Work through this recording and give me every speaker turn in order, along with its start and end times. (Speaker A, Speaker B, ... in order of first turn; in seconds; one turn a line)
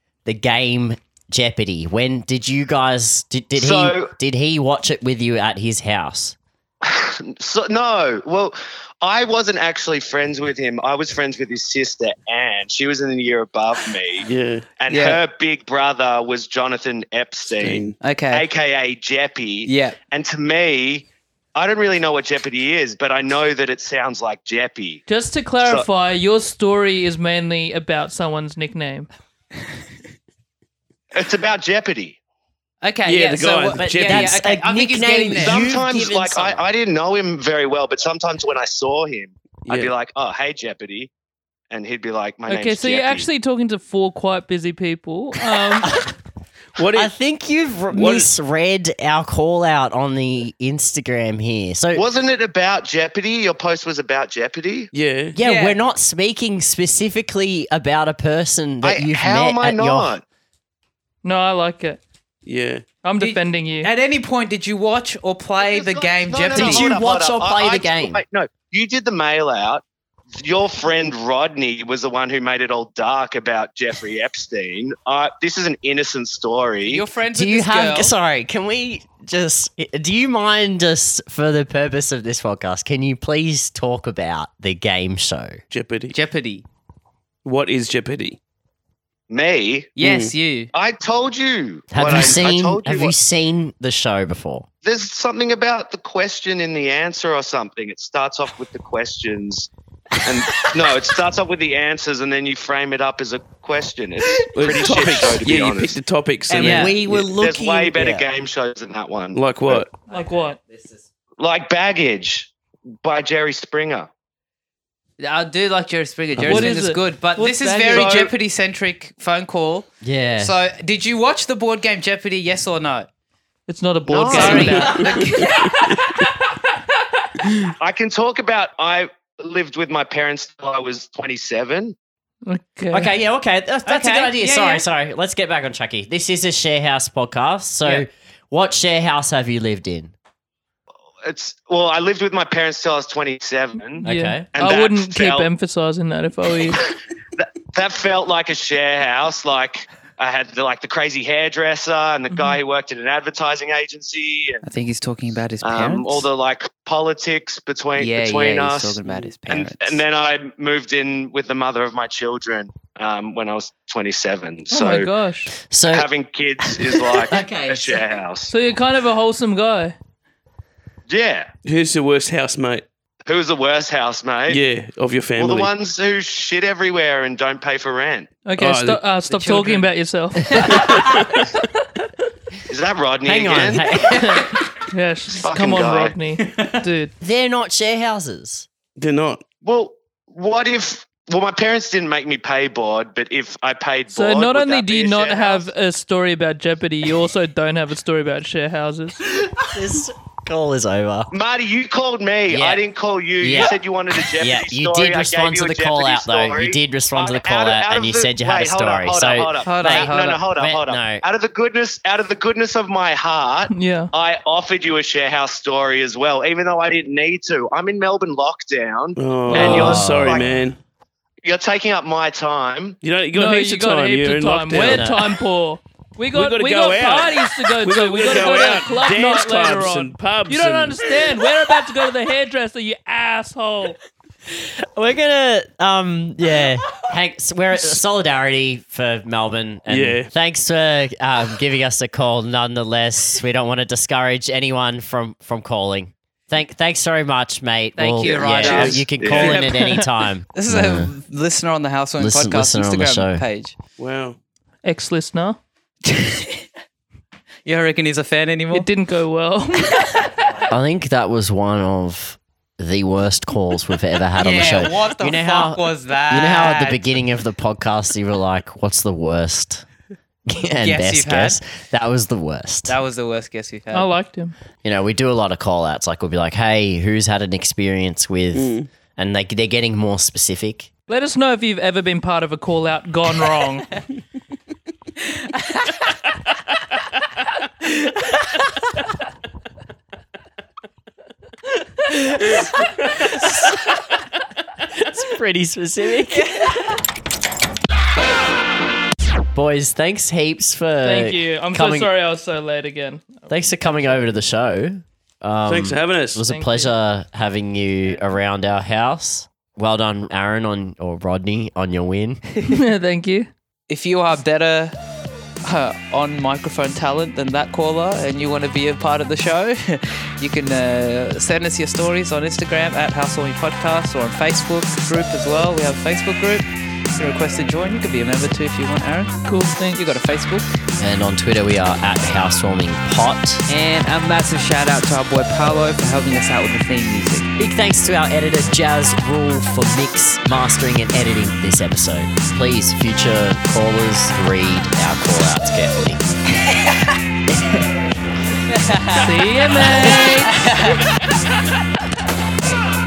Speaker A: 0.3-6.4
Speaker B: 3.6-4.1
Speaker B: 6.8-14.3
Speaker C: 14.2-14.7
Speaker B: 14.8-25.0
Speaker D: 14.9-15.2
Speaker C: 17.5-18.0
Speaker D: 18.0-18.5
Speaker D: 19.7-20.0
Speaker E: 25.1-29.1
Speaker B: 31.1-32.2
Speaker D: 32.8-35.6
Speaker C: 33.0-34.3
Speaker A: 33.8-36.6
Speaker B: 35.4-41.1
Speaker C: 39.7-39.9
Speaker B: 41.7-43.3
Speaker E: 42.5-46.0
Speaker A: 45.7-46.1
Speaker C: 46.8-47.1
Speaker A: 47.0-52.0
Speaker C: 47.9-48.3
Speaker B: 51.9-54.9
Speaker C: 54.9-55.4
Speaker A: 55.4-60.1
Speaker D: 55.4-55.8
Speaker B: 58.8-60.2
Speaker E: 61.2-62.0
Speaker C: 62.5-62.9
Speaker E: 63.0-63.9
Speaker D: 63.2-66.9
Speaker B: 65.6-69.8
Speaker A: 66.6-68.2
Speaker B: 70.4-77.0
Speaker D: 76.9-78.1
Speaker A: 77.3-85.6
Speaker C: 85.7-86.2
Speaker D: 86.1-86.7
Speaker C: 87.5-88.4
Speaker B: 89.3-89.9
Speaker D: 90.0-90.7
Speaker C: 90.0-90.3
Speaker B: 90.7-93.2
Speaker A: 91.9-94.7
Speaker B: 94.8-99.7
Speaker B: 100.2-106.0
Speaker C: 104.5-107.3
Speaker D: 106.5-107.0
Speaker A: 106.5-108.3
Speaker B: 107.3-109.9
Speaker C: 109.3-109.9
Speaker E: 110.1-110.6
Speaker D: 110.1-111.0
Speaker B: 111.4-114.1
Speaker D: 115.2-123.1
Speaker A: 116.4-116.8
Speaker E: 116.4-118.3
Speaker A: 120.0-120.6
Speaker E: 123.7-125.1
Speaker B: 124.1-124.8
Speaker D: 124.2-126.2
Speaker A: 124.2-125.2
Speaker B: 127.8-132.0
Speaker E: 132.5-133.1
Speaker A: 132.9-140.1
Speaker D: 133.9-134.8
Speaker B: 141.2-145.5
Speaker E: 144.0-146.8
Speaker A: 144.0-144.5
Speaker B: 147.4-154.6
Speaker E: 152.3-152.6
Speaker D: 154.6-156.3
Speaker B: 155.6-165.1
Speaker D: 158.0-160.0
Speaker E: 164.7-165.5
Speaker A: 165.6-166.1
Speaker B: 165.9-168.5
Speaker A: 166.7-168.1
Speaker E: 168.5-170.0
Speaker B: 171.1-171.5
Speaker C: 171.7-172.8
Speaker B: 173.3-174.6
Speaker C: 174.5-175.7
Speaker B: 175.4-178.3
Speaker E: 178.4-181.2
Speaker C: 178.6-179.0
Speaker D: 179.3-179.8
Speaker C: 180.8-181.5
Speaker B: 182.7-183.9
Speaker A: 183.2-184.5
Speaker E: 184.1-187.1
Speaker B: 185.3-186.2
Speaker A: 187.2-188.7
Speaker C: 189.0-189.4
Speaker B: 189.6-195.7
Speaker E: 194.1-199.2
Speaker A: 199.6-201.3
Speaker B: 201.3-220.6
Speaker A: 202.5-202.8
Speaker A: 203.4-203.8
Speaker A: 204.3-211.2
Speaker D: 209.6-210.5
Speaker E: 213.7-214.1
Speaker C: 219.2-220.8
Speaker E: 219.5-220.0
Speaker A: 219.6-220.5
Speaker B: 221.4-223.0
Speaker C: 223.0-225.1
Speaker E: 223.3-234.0
Speaker A: 224.7-225.3
Speaker C: 226.3-231.4
Speaker A: 234.5-251.1
Speaker C: 239.9-240.3
Speaker D: 248.0-249.3
Speaker B: 248.2-249.8
Speaker C: 248.6-249.4
Speaker E: 249.5-250.1
Speaker D: 250.5-253.8
Speaker A: 252.2-253.4
Speaker C: 254.0-254.4
Speaker E: 254.8-255.6
Speaker D: 256.1-256.6
Speaker D: 257.7-258.9
Speaker E: 258.7-260.3
Speaker A: 260.7-269.9
Speaker D: 264.4-267.0
Speaker A: 270.5-273.0
Speaker D: 270.8-271.6
Speaker D: 272.9-274.1
Speaker E: 273.9-274.6
Speaker A: 274.8-280.9
Speaker C: 278.5-278.9
Speaker E: 281.1-284.0
Speaker D: 285.5-285.9
Speaker A: 294.9-296.5
Speaker D: 296.5-297.0
Speaker A: 299.5-302.1
Speaker E: 301.0-304.2
Speaker A: 303.5-312.4
Speaker C: 305.7-306.4
Speaker E: 306.5-306.9
Speaker E: 312.7-313.5
Speaker D: 313.9-315.0
Speaker D: 315.6-330.6
Speaker E: 329.4-330.0
Speaker A: 331.0-333.6
Speaker D: 333.7-337.5
Speaker A: 337.6-346.2
Speaker A: 347.5-347.9
Speaker D: 348.7-349.2
Speaker E: 349.2-350.7
Speaker D: 349.8-351.0